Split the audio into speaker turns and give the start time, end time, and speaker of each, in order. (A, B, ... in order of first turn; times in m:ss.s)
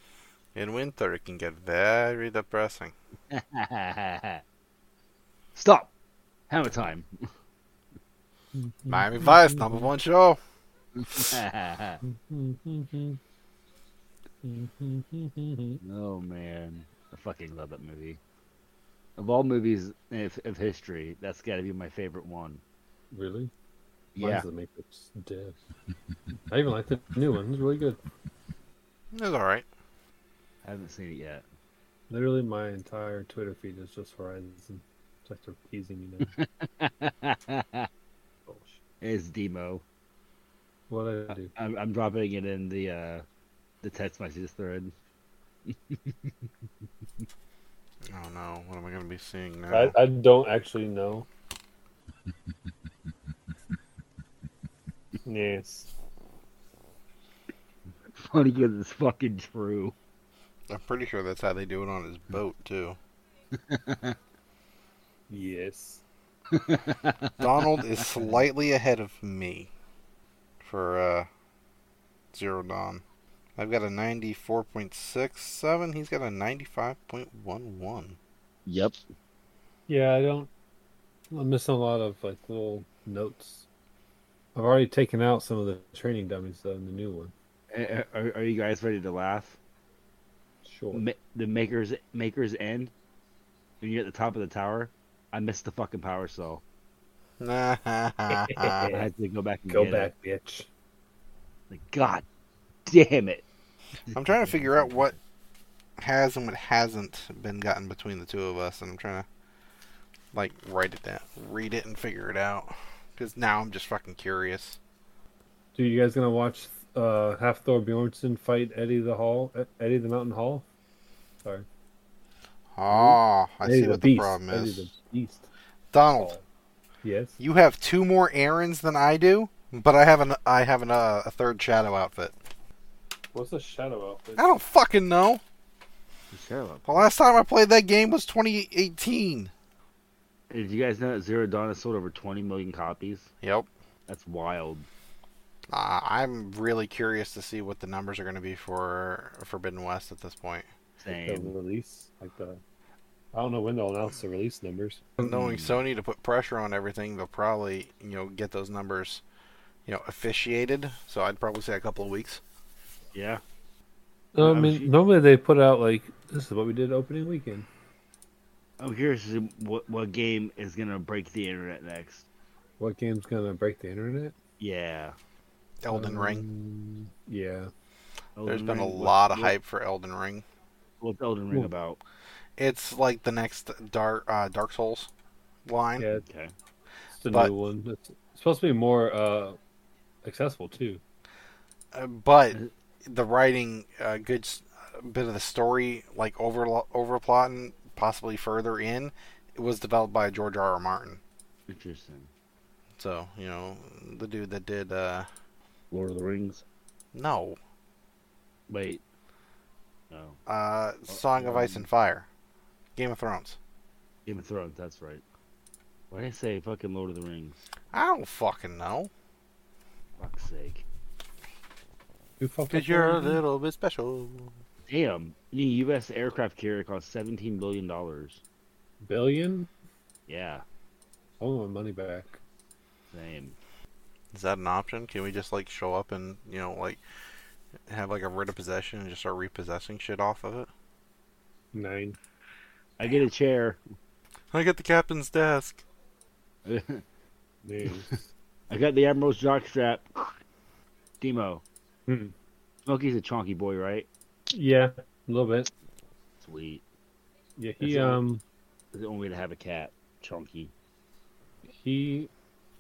0:00.5-0:02.9 A
0:03.3-0:04.4 B
0:05.5-0:05.9 B
0:06.5-0:07.1 B
0:08.5-0:09.9 C
0:08.9-0:10.4 A
0:11.0-0:12.0 B
0:12.0-0:13.2 C
0:14.4-0:15.8 C
0:15.8-0:18.2 B
0:19.2-0:22.6 B
0:23.1-0:23.5 C
0:24.2-0:24.4 B
0:24.2-0:25.6 C
0:26.5-0:28.0 C
0:29.1-0:29.6 A
0:30.6-0:31.4 B
0:32.1-0:36.3 C
0:36.2-0:37.9 B
0:38.4-0:38.8 C
0:39.0-0:39.8 B
0:40.9-0:41.5 C
0:41.5-0:43.2 B
0:43.8-0:44.9 B
0:45.7-0:46.5 B
0:48.1-0:49.9 A
0:49.7-0:51.3 C
0:55.2-0:55.9 C
0:58.1-1:00.0 B
1:00.7-1:03.0 A
1:03.6-1:04.2 B
1:05.3-1:06.0 C
1:06.5-1:08.3 B
1:07.4-1:09.7 A
1:10.6-1:11.3 A
1:12.3-1:13.0 A
1:13.6-1:18.2 A
1:18.6-1:18.9 B
1:19.9-1:20.5 C
1:21.3-1:23.7 C
1:24.5-1:27.3 C
1:27.7-1:29.6 B
1:30.6-1:31.0 C
1:30.9-1:32.9 B
1:33.8-1:36.6 B
1:37.4-1:38.9 A
1:38.4-1:39.0 C
1:38.9-1:40.1 B
1:39.7-1:40.7 C
1:41.7-1:42.2 B
1:42.9-1:43.4 B
1:44.1-1:45.2 B
1:44.1-1:45.1 A
1:46.0-1:49.2 A
1:50.3-1:54.8 A
1:55.7-2:00.6 C
2:02.7-2:04.9 A
2:02.9-2:05.5 C
2:05.9-2:06.3 A
2:06.1-2:06.4 C
2:07.0-2:07.4 C
2:07.4-2:12.3 A
2:13.3-2:14.5 C
2:14.4-2:15.4 A
2:16.3-2:17.1 B
2:16.9-2:19.5 A
2:20.5-2:23.3 B
2:23.4-2:23.7 A
2:24.1-2:24.9 B
2:25.7-2:30.7 A
2:31.0-2:31.5 B
2:31.1-2:32.6 C
2:33.3-2:35.1 C
2:35.2-2:39.2 A
2:35.2-2:35.8 B
2:39.8-2:42.4 A
2:43.1-2:43.4 B
2:44.3-2:47.7 C
2:44.4-2:44.9 B
2:48.8-2:52.3 B
2:52.8-2:54.3 C
2:54.6-2:55.2 B
2:55.8-2:56.4 A
2:55.9-2:57.7 C
2:58.4-2:59.5 B
2:58.4-3:00.4 A
3:01.0-3:02.0 B
3:02.6-3:05.1 A
3:05.6-3:06.1 A
3:06.0-3:06.2 C
3:06.2-3:06.5 B
3:07.1-3:09.6 C
3:10.2-3:11.0 C
3:11.9-3:21.2 A
3:21.7-3:22.3 B
3:23.0-3:25.3 A
3:25.9-3:26.6 B
3:27.1-3:27.6 A
3:28.7-3:29.0 B
3:30.1-3:30.4 B
3:30.5-3:32.3 A
3:31.1-3:31.9 B
3:33.0-3:33.6 A
3:34.2-3:35.2 B
3:36.1-3:37.6 B
3:37.9-3:39.1 A
3:40.2-3:40.8 B
3:42.4-3:43.4 C
3:42.7-3:44.6 A
3:44.9-3:48.4 B
3:49.0-3:49.7 C
3:50.3-3:50.6 B
3:51.4-3:52.4 C
3:53.1-3:53.6 B
3:54.3-3:57.0 A
3:57.9-4:00.7 A
4:01.7-4:02.2 C
4:03.0-4:03.8 B
4:04.5-4:05.8 A
4:06.6-4:07.0 B
4:07.6-4:08.3 C
4:07.8-4:08.1 B
4:08.7-4:10.4 B
4:11.2-4:11.6 B
4:12.1-4:12.3 C
4:12.8-4:14.1 B
4:14.5-4:15.7 C
4:16.4-4:16.8 B
4:17.6-4:18.4 C
4:17.8-4:18.2 B
4:18.9-4:20.7 B
4:21.6-4:22.3 C